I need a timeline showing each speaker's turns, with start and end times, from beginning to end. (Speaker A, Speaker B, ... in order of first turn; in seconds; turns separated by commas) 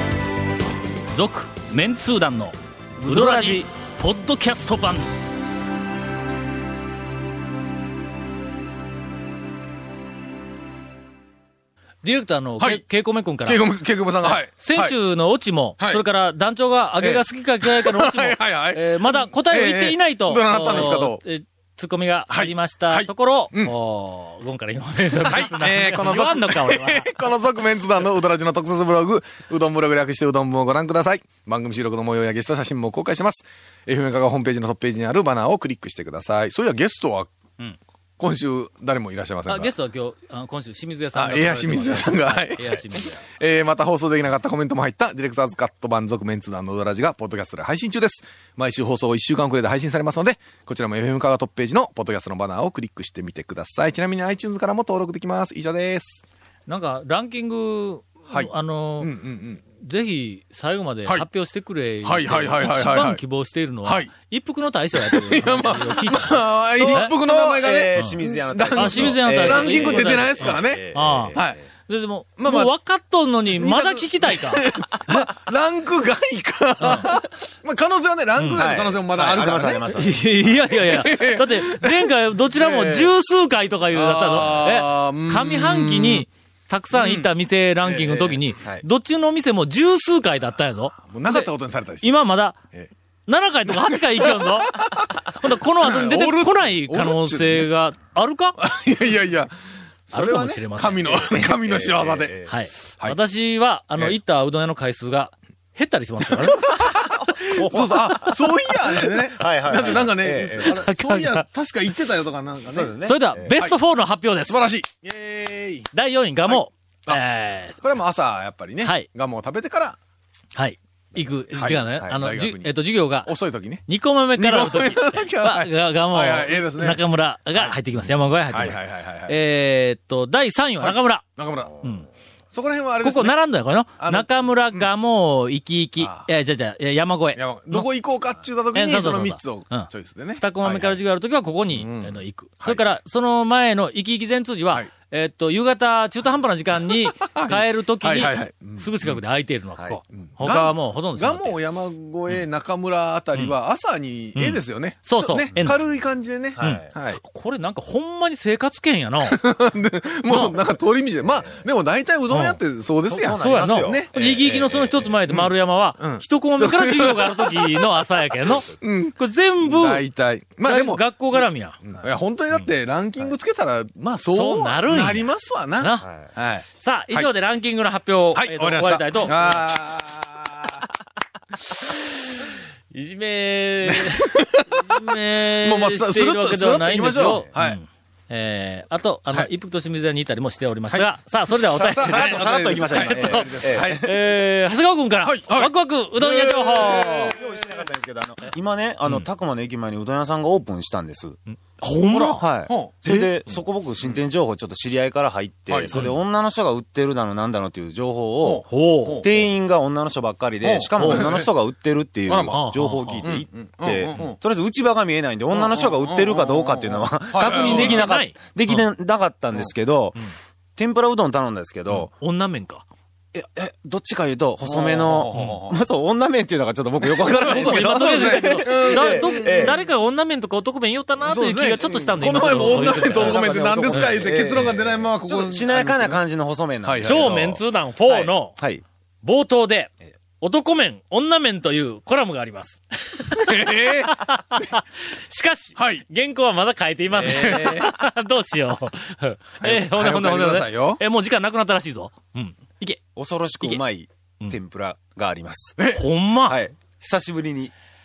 Speaker A: 1.1-5.1, Speaker B: 3.0-3.6, Speaker A: 12.0-13.6, Speaker C: 12.6-12.8, Speaker C: 13.4-14.9, Speaker A: 14.2-27.2, Speaker C: 15.8-16.0, Speaker C: 17.0-21.2, Speaker C: 22.3-23.7, Speaker C: 25.2-37.3, Speaker C: 38.2-39.7, Speaker A: 39.5-43.3, Speaker C: 41.1-56.2, Speaker A: 56.7-59.1, Speaker C: 58.3-59.6, Speaker A: 59.7-67.1, Speaker C: 62.0-63.2, Speaker C: 63.8-64.1, Speaker C: 64.9-71.6, Speaker B: 66.8-71.7, Speaker A: 68.7-74.7, Speaker C: 72.4-72.7, Speaker C: 73.5-83.1, Speaker A: 76.8-77.1, Speaker A: 78.4-78.7, Speaker B: 78.5-80.2, Speaker A: 79.9-91.5, Speaker C: 83.9-86.3, Speaker C: 86.9-87.3, Speaker C: 87.8-88.5, Speaker C: 91.0-92.2, Speaker A: 92.0-92.6, Speaker A: 93.3-98.6, Speaker C: 94.7-95.1, Speaker C: 95.8-97.7, Speaker C: 98.6-99.5, Speaker C: 100.1-102.3, Speaker A: 100.1-101.5, Speaker B: 101.3-102.5, Speaker A: 102.5-106.7, Speaker C: 106.6-112.9, Speaker B: 107.5-108.4, Speaker B: 109.2-110.8, Speaker A: 110.6-111.5, Speaker B: 112.7-113.6, Speaker A: 113.0-114.6, Speaker C: 114.5-115.9, Speaker A: 115.9-117.8, Speaker C: 116.5-117.2, Speaker C: 117.8-120.0, Speaker A: 118.8-119.1, Speaker A: 120.5-123.3, Speaker C: 121.5-123.8, Speaker A: 123.9-131.3, Speaker C: 124.4-127.0, Speaker C: 128.5-129.3, Speaker C: 130.8-131.8, Speaker A: 131.8-132.1, Speaker C: 132.5-133.4, Speaker A: 133.0-137.9, Speaker C: 134.0-134.9, Speaker C: 136.0-136.3, Speaker C: 137.4-141.0, Speaker A: 138.7-151.6, Speaker C: 141.7-142.9, Speaker C: 146.9-149.2, Speaker C: 150.2-157.2, Speaker A: 154.3-155.8, Speaker B: 156.6-156.9, Speaker A: 156.6-159.4, Speaker C: 159.2-164.3, Speaker A: 160.3-160.6, Speaker B: 161.3-161.6, Speaker A: 162.3-162.6, Speaker B: 163.0-165.1, Speaker A: 163.1-170.1, Speaker C: 165.3-167.9, Speaker B: 168.4-168.8, Speaker C: 168.8-177.3, Speaker A: 170.6-171.8, Speaker A: 174.3-176.1, Speaker B: 176.0-176.4, Speaker A: 176.8-179.6, Speaker C: 178.3-180.9, Speaker A: 182.9-197.4, Speaker C: 183.9-185.0, Speaker C: 185.6-187.8, Speaker C: 191.7-194.1, Speaker B: 192.0-194.2, Speaker C: 195.2-197.6, Speaker B: 197.2-201.4, Speaker A: 201.5-202.4, Speaker C: 202.1-203.4, Speaker B: 202.4-222.1, Speaker C: 205.7-206.2, Speaker A: 205.9-206.2, Speaker C: 208.4-209.4, Speaker A: 208.7-209.3, Speaker C: 210.6-211.5, Speaker A: 211.0-211.3, Speaker C: 212.3-212.6, Speaker A: 212.5-213.3, Speaker C: 213.2-214.4, Speaker C: 215.5-218.1, Speaker A: 217.6-218.8, Speaker A: 221.9-222.9, Speaker B: 223.3-229.8, Speaker C: 224.6-225.8, Speaker A: 225.3-225.6, Speaker C: 227.2-229.8, Speaker A: 227.4-234.2, Speaker C: 231.2-236.2, Speaker B: 232.2-238.8, Speaker C: 236.8-237.4, Speaker A: 237.0-238.6, Speaker A: 239.2-253.0, Speaker C: 243.4-244.2, Speaker C: 245.8-246.1, Speaker C: 247.1-247.9, Speaker C: 249.6-251.0, Speaker B: 253.2-255.9, Speaker C: 255.8-256.0, Speaker A: 255.9-256.6, Speaker B: 256.4-257.7